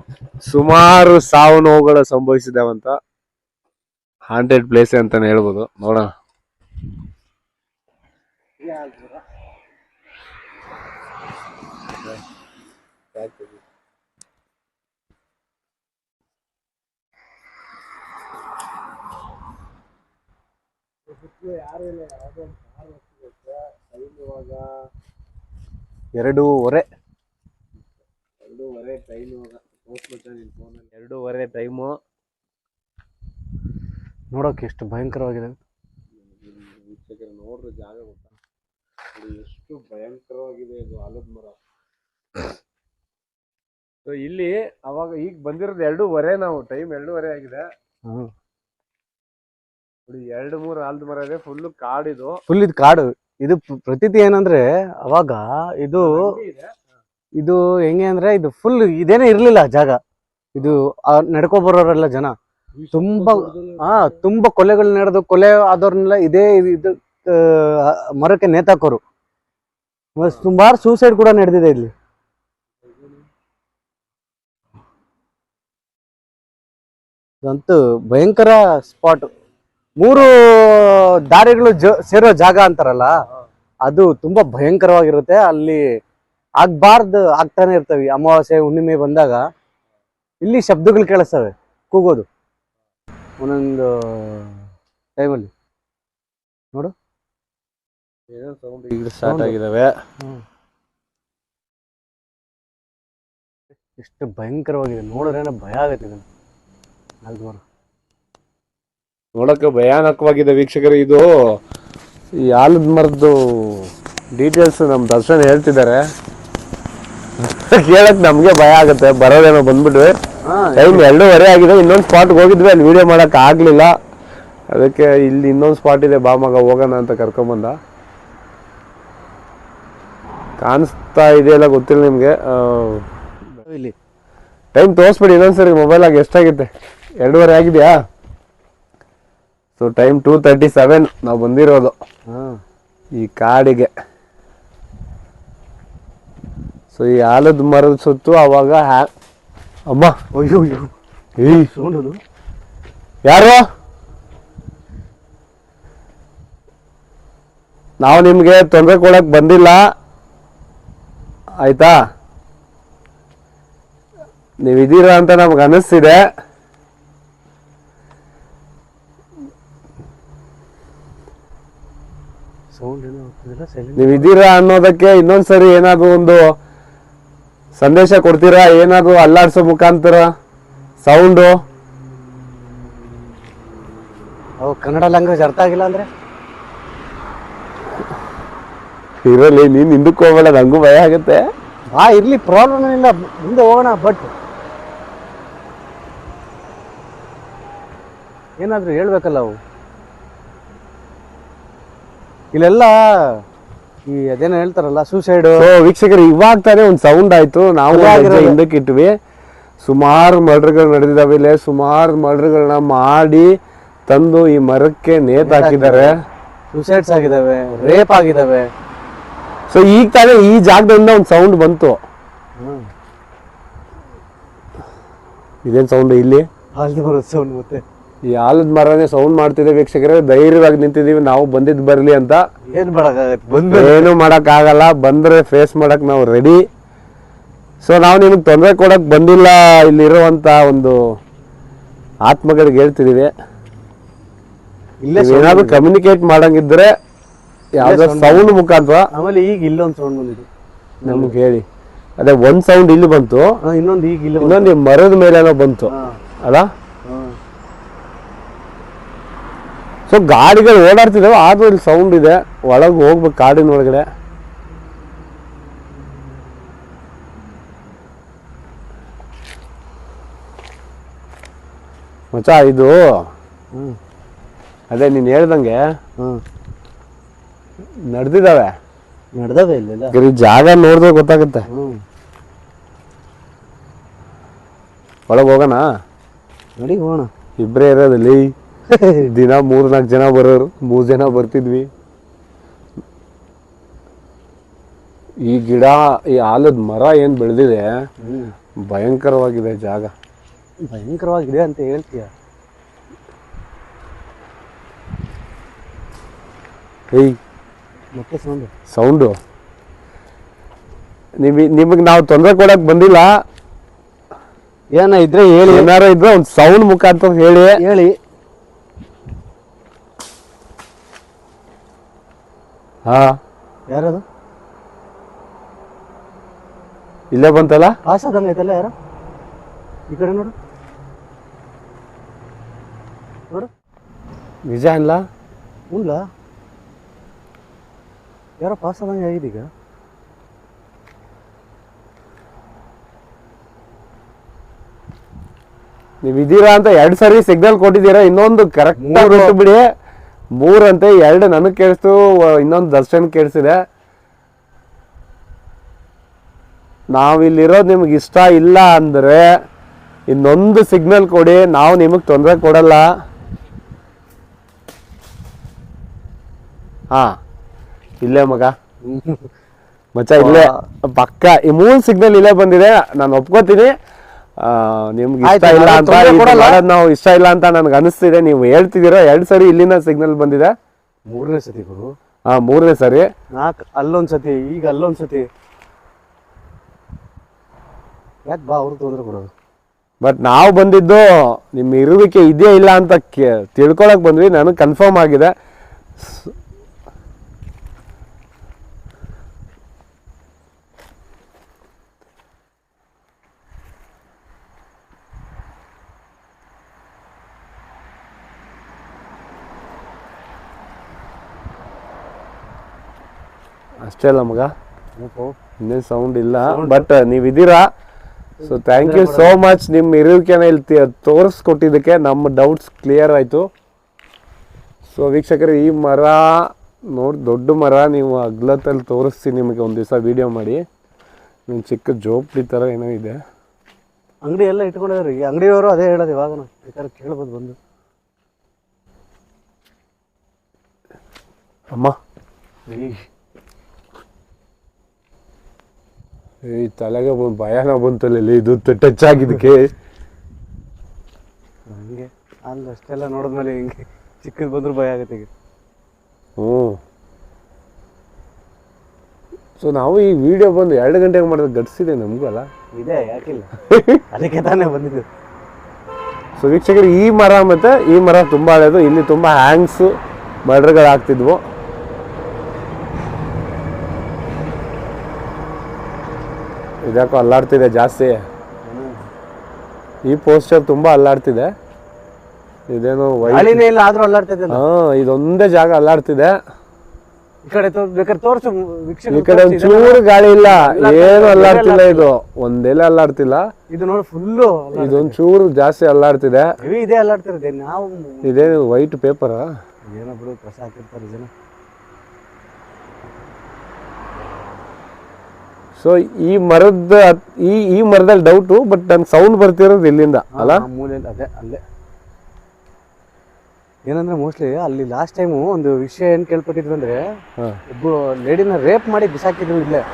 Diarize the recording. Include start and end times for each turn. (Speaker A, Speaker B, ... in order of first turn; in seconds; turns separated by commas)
Speaker A: 0.4-3.0, Speaker A: 4.3-6.1, Speaker B: 8.6-9.2, Speaker A: 13.1-13.6, Speaker A: 21.1-24.8, Speaker B: 26.2-26.9, Speaker A: 28.4-32.0, Speaker B: 34.3-35.6, Speaker A: 36.2-38.3, Speaker A: 39.1-41.6, Speaker A: 44.0-47.6, Speaker A: 50.1-52.4, Speaker B: 52.5-56.4, Speaker A: 56.0-56.7, Speaker B: 57.4-60.0, Speaker B: 60.5-62.3, Speaker A: 62.8-63.9, Speaker B: 62.9-69.0, Speaker B: 70.2-71.9, Speaker B: 77.4-79.3, Speaker B: 80.0-83.1, Speaker B: 83.8-85.8, Speaker B: 86.6-89.4, Speaker B: 90.4-92.3, Speaker B: 93.4-95.5, Speaker A: 98.3-99.9, Speaker B: 99.2-99.5, Speaker B: 104.0-106.2, Speaker B: 107.2-107.6, Speaker A: 109.3-111.3, Speaker A: 112.4-116.0, Speaker A: 117.4-120.2, Speaker B: 120.5-121.1, Speaker A: 120.8-123.9, Speaker A: 124.7-127.8, Speaker A: 130.6-133.1, Speaker B: 133.6-133.9, Speaker A: 134.7-138.0, Speaker A: 139.8-141.9, Speaker B: 142.3-142.6, Speaker A: 143.2-143.9, Speaker A: 146.9-149.1, Speaker A: 149.9-150.1, Speaker B: 150.3-150.9, Speaker A: 151.4-151.7, Speaker B: 151.4-152.2, Speaker A: 153.2-153.6, Speaker A: 158.0-159.8, Speaker A: 161.6-162.0, Speaker A: 164.6-166.2, Speaker B: 172.7-174.3, Speaker A: 174.0-176.4, Speaker A: 177.7-180.3, Speaker A: 181.0-181.5, Speaker B: 184.6-186.1, Speaker A: 189.2-191.4, Speaker B: 191.9-194.3, Speaker B: 198.6-199.6, Speaker B: 202.5-203.4, Speaker B: 204.1-205.7, Speaker A: 205.6-209.1, Speaker B: 207.9-208.6, Speaker A: 209.8-213.5, Speaker A: 214.1-216.1, Speaker B: 215.4-216.1, Speaker B: 216.7-218.7, Speaker A: 219.7-222.0, Speaker A: 225.6-226.4, Speaker B: 226.8-227.8, Speaker A: 228.3-232.4, Speaker B: 232.7-234.1, Speaker A: 233.7-236.6, Speaker A: 237.8-241.0, Speaker A: 242.3-243.3, Speaker B: 245.0-245.9, Speaker A: 245.2-246.9, Speaker A: 247.8-249.1, Speaker B: 247.8-248.5, Speaker B: 249.1-250.5, Speaker B: 251.0-251.3, Speaker A: 251.0-251.6, Speaker A: 252.2-253.6, Speaker B: 253.6-254.7, Speaker A: 254.4-256.7, Speaker B: 255.9-256.2, Speaker B: 257.1-257.3, Speaker A: 260.1-264.1, Speaker A: 272.3-273.0, Speaker A: 274.9-275.8, Speaker A: 278.1-278.7, Speaker B: 279.4-280.1, Speaker A: 280.1-281.6, Speaker B: 281.7-282.0, Speaker A: 285.3-285.9, Speaker B: 286.8-287.3, Speaker A: 287.6-288.5, Speaker B: 288.9-289.3, Speaker A: 289.2-291.9, Speaker A: 295.4-297.9, Speaker B: 298.2-298.5, Speaker A: 298.9-300.1, Speaker B: 300.8-302.3, Speaker A: 307.1-307.4, Speaker B: 308.1-308.7, Speaker A: 308.9-309.4, Speaker A: 311.4-313.3, Speaker B: 314.9-315.9, Speaker A: 315.6-317.8, Speaker B: 317.8-318.1, Speaker A: 323.1-323.4, Speaker B: 323.9-324.2, Speaker A: 327.3-327.9, Speaker B: 328.0-328.9, Speaker B: 330.1-330.5, Speaker A: 334.6-335.2, Speaker B: 335.9-336.2, Speaker B: 338.6-339.7, Speaker A: 346.2-349.8, Speaker B: 349.0-349.5, Speaker A: 350.6-353.8, Speaker A: 357.1-359.5, Speaker A: 360.3-363.1, Speaker A: 368.2-368.7, Speaker B: 369.1-369.5, Speaker A: 370.1-373.9, Speaker B: 370.4-370.8, Speaker A: 374.6-380.7, Speaker B: 375.4-376.8, Speaker B: 381.3-382.1, Speaker A: 382.5-383.3, Speaker B: 383.5-385.5, Speaker B: 388.4-389.5, Speaker A: 390.2-395.5, Speaker A: 396.2-396.5, Speaker A: 414.0-414.7, Speaker B: 415.2-415.6, Speaker A: 415.8-417.9, Speaker B: 416.6-417.1, Speaker B: 418.6-419.6, Speaker A: 418.6-423.7, Speaker A: 425.1-430.8, Speaker A: 431.7-433.4, Speaker B: 434.4-437.8, Speaker B: 442.9-443.2, Speaker A: 446.7-449.9, Speaker B: 451.9-455.5, Speaker A: 456.6-457.0, Speaker A: 459.8-462.7, Speaker B: 462.9-463.7, Speaker A: 463.9-464.2, Speaker B: 464.3-465.2, Speaker A: 466.6-470.1, Speaker A: 470.6-471.6, Speaker A: 477.0-478.4, Speaker B: 478.8-479.2, Speaker A: 480.3-481.7, Speaker A: 482.9-483.8, Speaker B: 483.4-484.8, Speaker A: 484.7-486.6, Speaker B: 487.6-492.3, Speaker A: 489.3-493.6, Speaker B: 493.9-495.4, Speaker A: 494.9-496.7, Speaker B: 496.8-498.8, Speaker A: 498.4-499.7, Speaker B: 500.1-501.5, Speaker A: 505.9-510.9, Speaker B: 510.6-511.8, Speaker B: 514.1-517.2, Speaker B: 517.9-520.0